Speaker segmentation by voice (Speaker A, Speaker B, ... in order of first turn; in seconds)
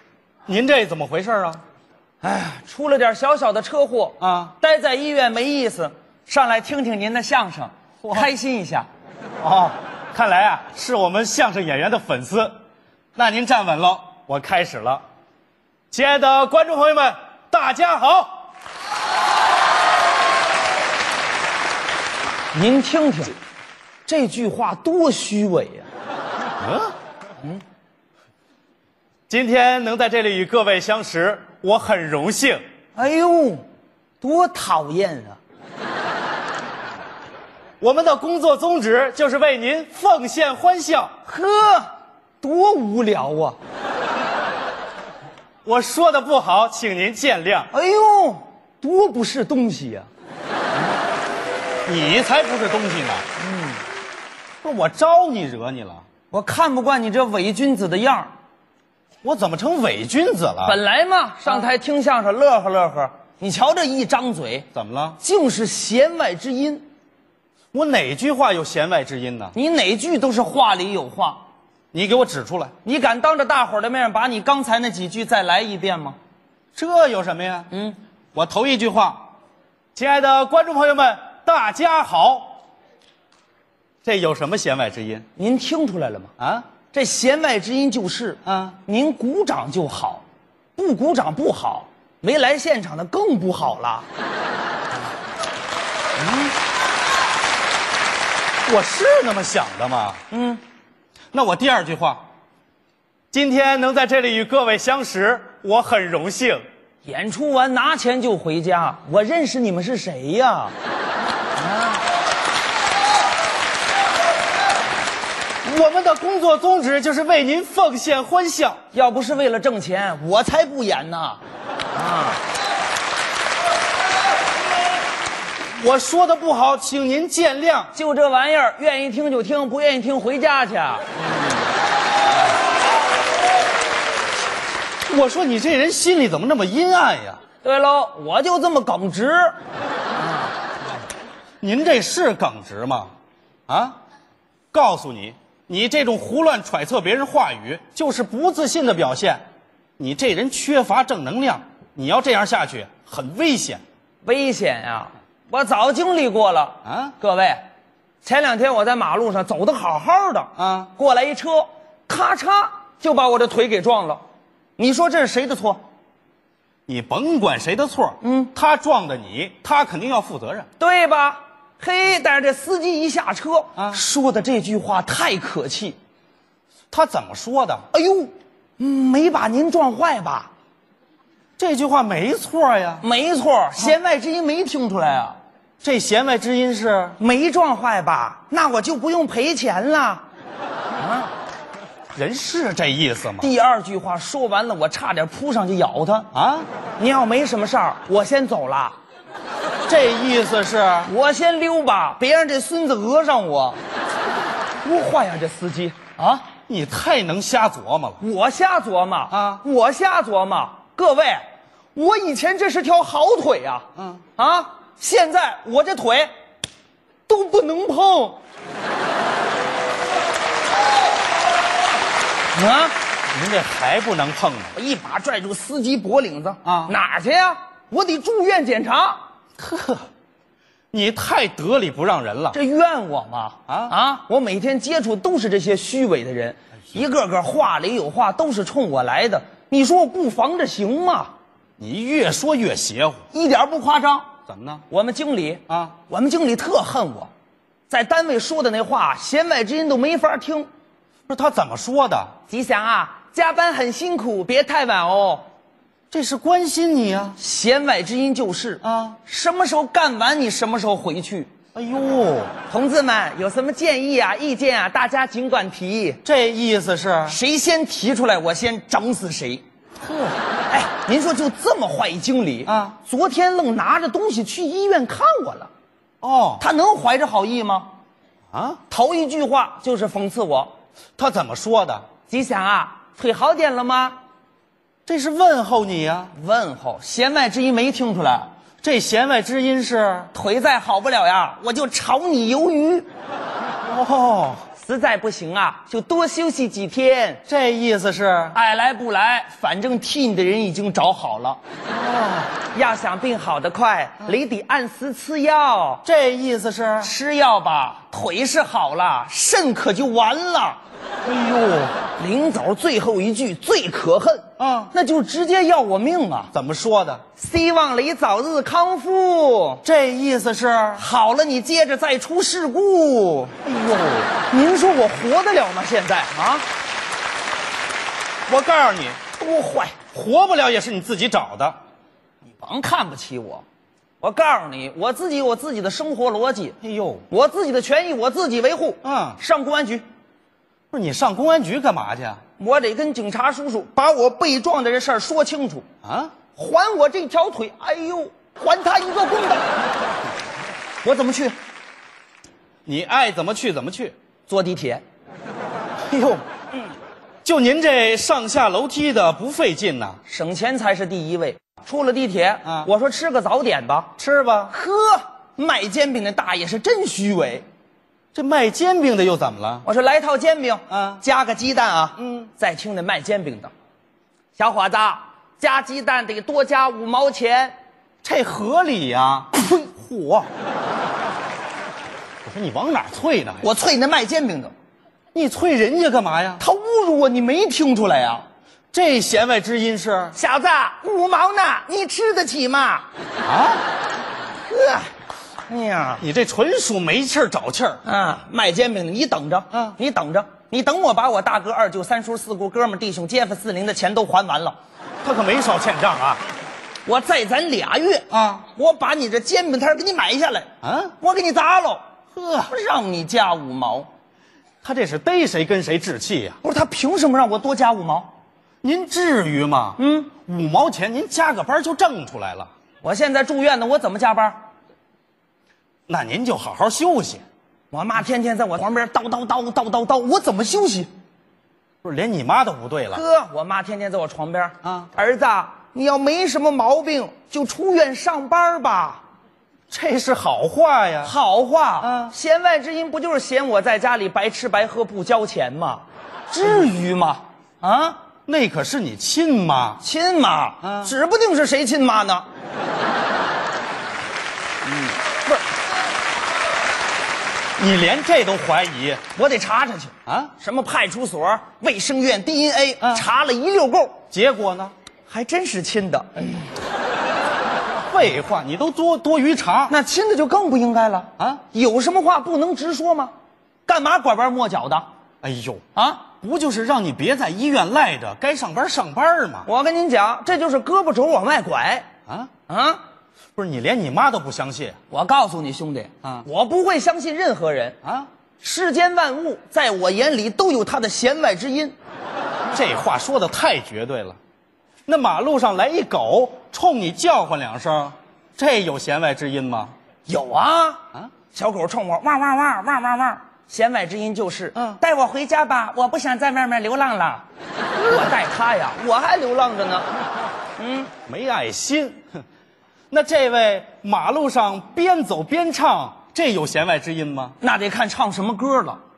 Speaker A: 0.5-1.6, 4.2-4.5, 9.4-12.6, 13.2-15.0, 15.9-18.4, 26.6-26.9, 29.3-32.6, 37.8-41.1, 45.6-47.7, 51.9-53.2, 54.6-56.0, 59.2-60.8, 64.7-65.2, 67.7-69.5, 71.9-72.7, 76.7-77.7, 78.3-79.3, 79.9-82.6, 84.0-85.2, 86.4-86.7, 88.4-88.8, 98.7-100.2, 101.3-102.3, 103.3-106.6, 115.6-118.8, 125.7-127.9, 135.1-137.4, 141.6-143.1, 143.7-144.0, 144.7-149.4, 150.0-153.8, 156.8-157.1, 160.6-160.9, 166.9-170.7, 176.9-177.8, 181.6-183.0, 185.8-187.2, 192.1-193.5, 196.3-196.7, 199.9-201.1, 206.7-208.2, 209.3-209.6, 223.3-224.7, 226.6-226.9, 229.6-230.1, 230.9-232.6, 233.7-233.9, 241.8-243.2, 244.5-244.8, 245.7-245.9, 251.3-252.3, 256.1-257.4, 258.8-259.2, 261.7-262.5, 266.2-267.4, 272.6-273.0, 276.2-276.6, 278.5-278.8, 281.2-282.1, 285.1-286.3, 288.8-290.3, 293.8-294.6, 297.5-298.6, 301.9-302.5, 306.0-307.1, 311.2-311.9, 314.6-314.9, 316.5-317.2, 319.8-321.0, 323.6-324.3, 328.5-329.2, 330.1-331.8, 336.8-337.2, 339.0-339.4, 340.9-342.4, 346.0-346.3, 352.8-354.1, 356.1-356.4, 357.4-360.2, 364.2-364.7, 368.3-369.8, 370.9-371.2, 372.2-372.5, 378.2-380.5, 382.4-383.6, 385.3-386.6, 388.9-390.3, 393.4-393.8, 396.2-398.0, 405.2-406.4, 408.3-408.7, 410.8-411.1, 412.4-412.7, 414.8-416.6, 418.8-422.7, 426.1-427.4, 432.0-433.2, 439.9-441.3, 442.0-442.3, 448.5-450.0, 450.8-451.1, 457.8-459.2, 460.3-460.5, 464.3-464.9, 468.1-469.9, 475.4-475.8, 476.4-479.7, 483.6-485.0, 488.0-488.3, 492.7-494.4, 495.1-499.9, 511.3-512.2, 513.1-517.5
Speaker B: 2.2-8.9, 22.5-23.3, 24.1-25.9, 32.9-33.6, 34.2-35.4, 41.2-43.6, 47.7-50.1, 53.4-53.8, 56.3-58.3, 60.6-64.7, 65.2-66.8, 69.5-71.4, 72.8-76.2, 77.7-78.0, 85.3-86.3, 86.9-90.2, 90.8-94.1, 100.3-100.6, 107.0-110.7, 111.6-112.0, 118.9-121.4, 121.9-122.4, 127.9-131.5, 137.6-139.6, 154.2-157.6, 158.2-164.2, 164.8-165.8, 168.2-168.5, 170.8-176.0, 177.9-180.5, 183.0-185.4, 187.2-190.2, 191.0-191.3, 193.4-196.3, 197.0-199.0, 201.1-203.8, 204.8-206.5, 208.2-216.3, 217.3-218.4, 222.5-222.9, 224.8-229.2, 232.5-241.3, 243.3-244.3, 244.9-247.3, 247.9-250.7, 252.5-255.5, 257.4-261.5, 262.7-266.2, 267.3-269.6, 270.7-275.7, 276.6-277.9, 278.9-280.7, 282.3-284.2, 286.3-288.5, 290.3-293.1, 294.8-297.4, 298.5-301.6, 302.7-306.0, 307.0-310.8, 312.2-316.5, 317.4-319.8, 321.0-323.6, 324.3-326.6, 329.4-330.0, 332.6-333.6, 334.2-336.8, 337.3-340.0, 342.6-345.9, 346.5-349.7, 351.0-351.6, 354.5-355.0, 360.3-364.1, 364.7-367.6, 369.8-373.7, 374.6-377.7, 383.6-384.7, 386.6-388.4, 390.3-393.1, 394.7-395.1, 395.7-396.2, 398.0-404.8, 407.0-410.7, 411.2-412.0, 412.6-414.1, 416.6-418.3, 420.0-420.3, 423.0-424.6, 427.9-431.1, 433.1-439.2, 441.2-448.2, 450.0-452.5, 454.8-455.6, 459.3-464.2, 465.3-466.7, 469.9-473.3, 473.9-475.1, 475.9-476.3, 479.6-482.1, 482.7-483.0, 485.1-488.0, 488.6-491.9, 500.3-507.4, 508.0-510.1, 510.8-511.1, 517.6-519.0